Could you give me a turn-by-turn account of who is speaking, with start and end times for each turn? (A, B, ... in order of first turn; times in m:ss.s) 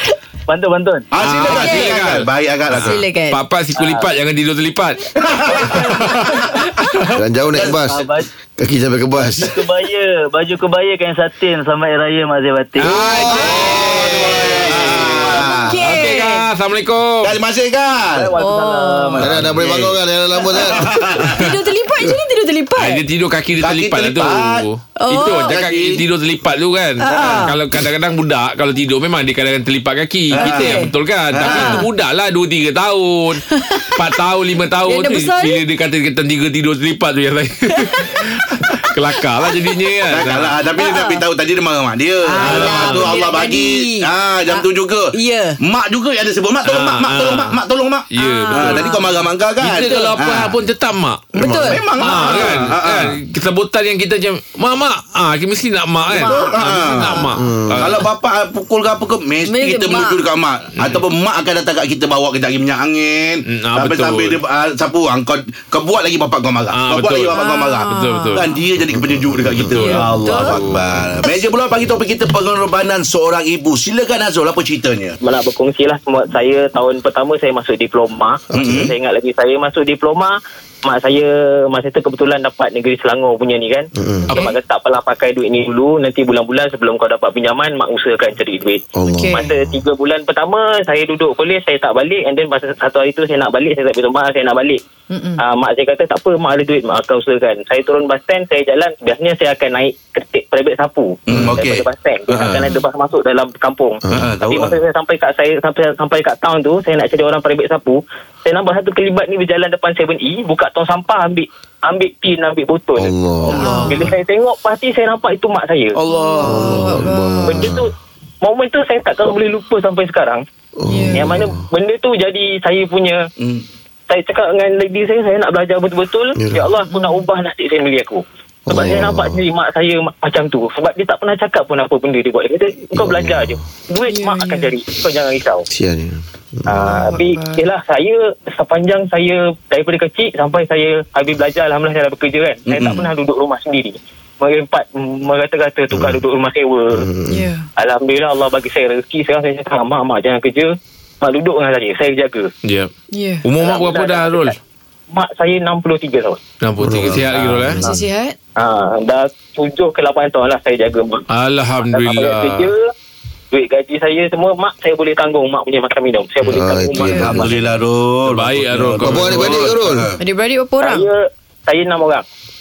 0:00.5-0:01.1 A
0:01.1-0:03.0 B
0:01.2-0:05.1 C
0:01.4-0:02.0 D
0:02.8-0:03.4 D
0:03.8-0:04.1 A
0:05.2-0:06.5 B
0:05.5-0:05.9 A
0:05.7-0:07.0 C
0:07.1-0:08.0 E
0:07.6-0:07.8 B
0:07.7-0:08.3 A
0:08.6-0:09.6 E
0:09.2-0:13.0 A
0:12.8-0:17.4 C
0:12.9-0:16.5 D
0:12.9-0:15.8 B
0:13.1-0:13.6 E
0:17.2-0:18.3 B
0:18.1-0:19.5 A
0:18.4-0:19.2 D
0:19.2-0:21.1 E
0:19.2-0:20.0 B
0:20.5-0:21.5 B
0:21.2-0:23.0 D
0:22.8-0:33.4 C
0:23.6-0:24.7 B
0:25.0-0:25.5 D
0:25.2-0:26.0 B
0:27.0-0:27.6 D
0:27.1-0:27.5 B
0:30.3-0:31.9 B
0:30.4-0:30.9 D
0:31.4-0:31.8 D
0:33.5-0:33.9 D
0:34.0-0:40.5 C
0:34.9-0:35.6 D
0:37.7-0:38.3 D
0:40.1-0:50.6 B
0:40.8-0:41.2 D
0:42.3-0:45.6 D
0:42.4-0:43.1 C
0:46.6-0:47.6 C
0:48.1-0:49.0 C
0:48.2-0:49.0 D
0:49.6-0:51.2 C
0:49.9-0:50.1 D
0:51.3-0:52.4 D
0:51.4-0:51.8 E
0:51.4-0:53.2 B
0:52.0-0:58.1 C
0:56.1-1:15.2 B
0:56.1-0:56.6 D
0:57.4-0:57.9 E
0:59.5-1:00.2 D
1:03.5-1:04.4 C
1:06.7-1:08.5 C
1:07.3-1:08.6 D
1:09.7-1:11.0 C
1:09.8-1:10.6 D
1:15.2-1:34.8 F
1:18.5-1:18.9 E
1:18.5-1:18.9 B
1:24.0-1:24.3 E
1:29.0-1:29.8 E
1:29.1-1:29.5 D
1:35.1-1:35.4 D
1:35.4-1:56.0 F
1:41.3-1:42.7 B
1:44.1-1:44.8 B
1:53.0-1:53.9 E
1:53.6-1:54.0 D
1:56.0-1:56.9 B
1:56.1-1:57.7 D
1:56.4-1:57.9 E
1:57.5-2:00.4 F
2:00.8-2:01.6 E
2:00.9-2:01.3 D
2:01.1-2:03.2 F
2:03.4-2:03.6 B
2:04.1-2:15.7 F
2:06.4-2:06.7 E
2:06.9-2:07.2 D
2:08.7-2:09.4 E
2:13.0-2:13.6 E
2:14.1-2:14.7 D
2:15.7-2:17.1 E
2:16.7-2:27.1 F
2:16.8-2:17.6 D
2:22.7-2:23.1 B
2:25.9-2:26.2 E
2:26.9-2:27.5 E
2:27.3-2:27.7 D
2:27.8-2:32.5 F
2:32.6-2:32.9 C
2:33.1-2:33.5 D
2:33.4-2:34.6 C
2:33.6-2:34.6 F
2:35.1-2:36.4 F
2:36.6-2:37.8 C
2:36.8-2:38.0 E
2:37.8-2:38.4 D
2:38.6-2:41.3 F
2:41.3-2:42.7 C
2:41.9-2:42.9 F
2:43.5-2:47.6 F
2:46.5-2:47.6 E
2:47.0-2:50.2 B
2:48.3-2:49.8 C
2:49.0-2:50.1 E
2:50.2-2:51.1 D
2:50.8-2:52.2 F